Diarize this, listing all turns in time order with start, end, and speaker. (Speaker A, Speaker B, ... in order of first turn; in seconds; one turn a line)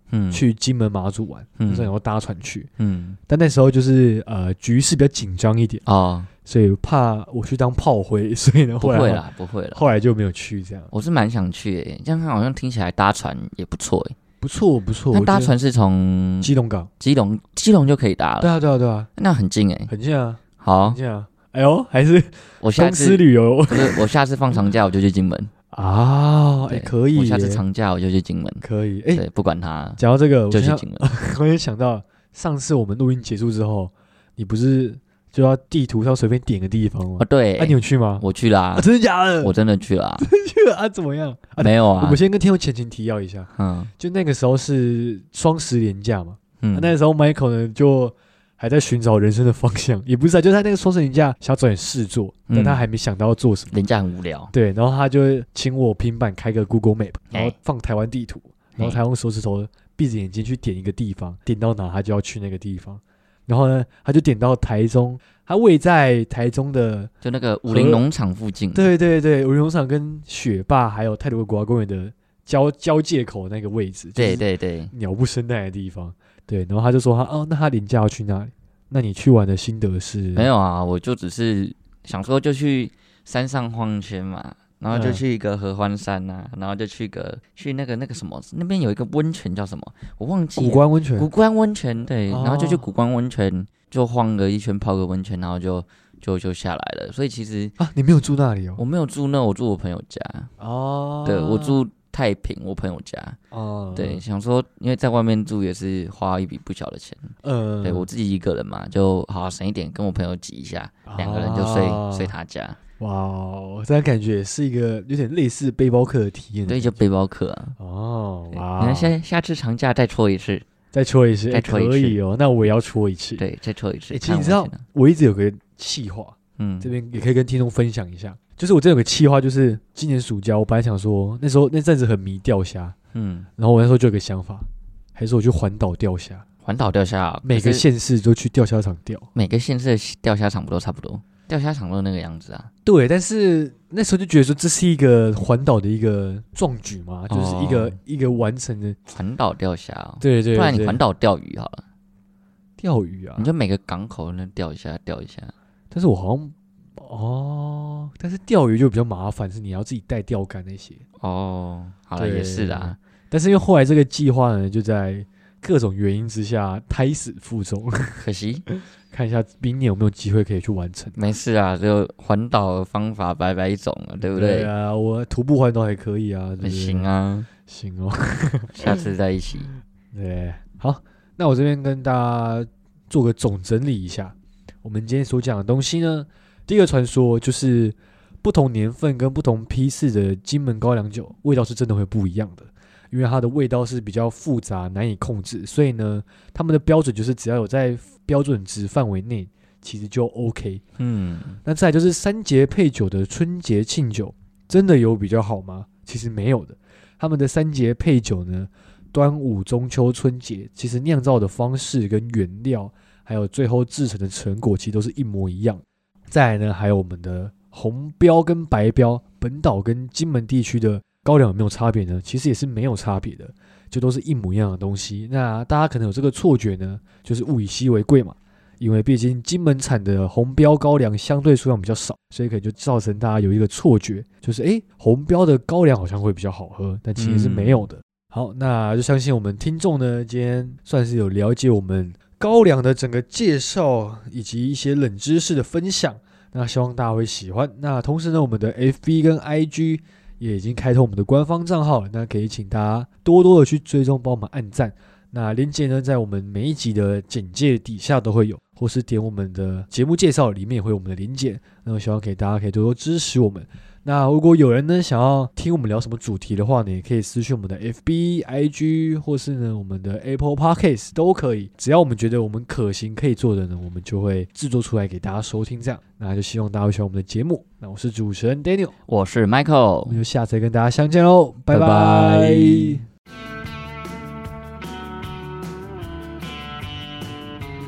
Speaker A: 0.1-0.4
Speaker B: 0.3-2.7
Speaker A: 1.6-1.9
Speaker A: 2.8-3.2
Speaker B: 3.3-5.8
Speaker A: 5.9-6.3
Speaker B: 6.5-10.9
Speaker A: 8.8-9.8
Speaker A: 10.9-14.2
Speaker B: 14.4-15.6
Speaker A: 15.1-18.5
Speaker B: 16.4-16.9
Speaker B: 18.4-19.1
Speaker A: 19.2-19.9
Speaker B: 19.9-24.1
Speaker A: 20.6-21.0
Speaker A: 22.6-25.5
Speaker B: 25.7-27.6
Speaker A: 26.7-30.0
Speaker B: 28.6-29.2
Speaker B: 30.0-39.5
Speaker A: 30.5-31.0
Speaker A: 37.2-38.9
Speaker A: 39.4-40.3
Speaker B: 40.2-53.8
Speaker A: 41.6-42.2
Speaker A: 43.5-43.9
Speaker A: 46.6-46.9
Speaker A: 52.5-52.9
Speaker A: 53.7-54.5
Speaker B: 54.5-67.1
Speaker A: 67.2-68.9
Speaker B: 67.7-68.0
Speaker B: 68.7-80.5
Speaker A: 74.2-74.9
Speaker A: 80.3-97.8
Speaker B: 84.9-85.2
Speaker B: 90.6-91.3
Speaker B: 92.3-92.9
Speaker B: 97.8-98.8
Speaker A: 98.8-100.5
Speaker B: 100.6-101.8
Speaker A: 101.2-103.4
Speaker B: 103.5-104.2
Speaker A: 104.0-112.8
Speaker B: 107.4-108.1
Speaker B: 111.1-112.3
Speaker B: 113.0-117.0
Speaker A: 116.7-117.8
Speaker B: 117.8-119.2
Speaker A: 118.5-120.7
Speaker B: 120.9-123.4
Speaker A: 121.5-122.2
Speaker A: 123.4-124.8
Speaker B: 124.1-132.9
Speaker A: 126.6-126.9
Speaker A: 133.1-133.5
Speaker B: 133.6-136.4
Speaker A: 136.7-137.8
Speaker B: 137.4-139.3
Speaker A: 139.3-142.7
Speaker B: 142.8-149.0
Speaker A: 147.3-148.0
Speaker A: 149.1-151.8
Speaker B: 150.2-151.0
Speaker B: 152.8-153.5
Speaker A: 153.4-155.5
Speaker B: 155.9-161.0
Speaker A: 161.2-163.0
Speaker B: 162.2-171.2
Speaker A: 168.2-168.6
Speaker A: 171.2-174.7
Speaker B: 174.2-177.1
Speaker A: 176.6-177.5
Speaker B: 177.7-178.9
Speaker A: 178.7-179.7
Speaker B: 180.1-200.8
Speaker A: 201.0-201.6
Speaker B: 201.7-278.9
Speaker A: 237.2-237.9
Speaker A: 279.1-280.2
Speaker B: 280.1-283.0
Speaker A: 281.7-283.0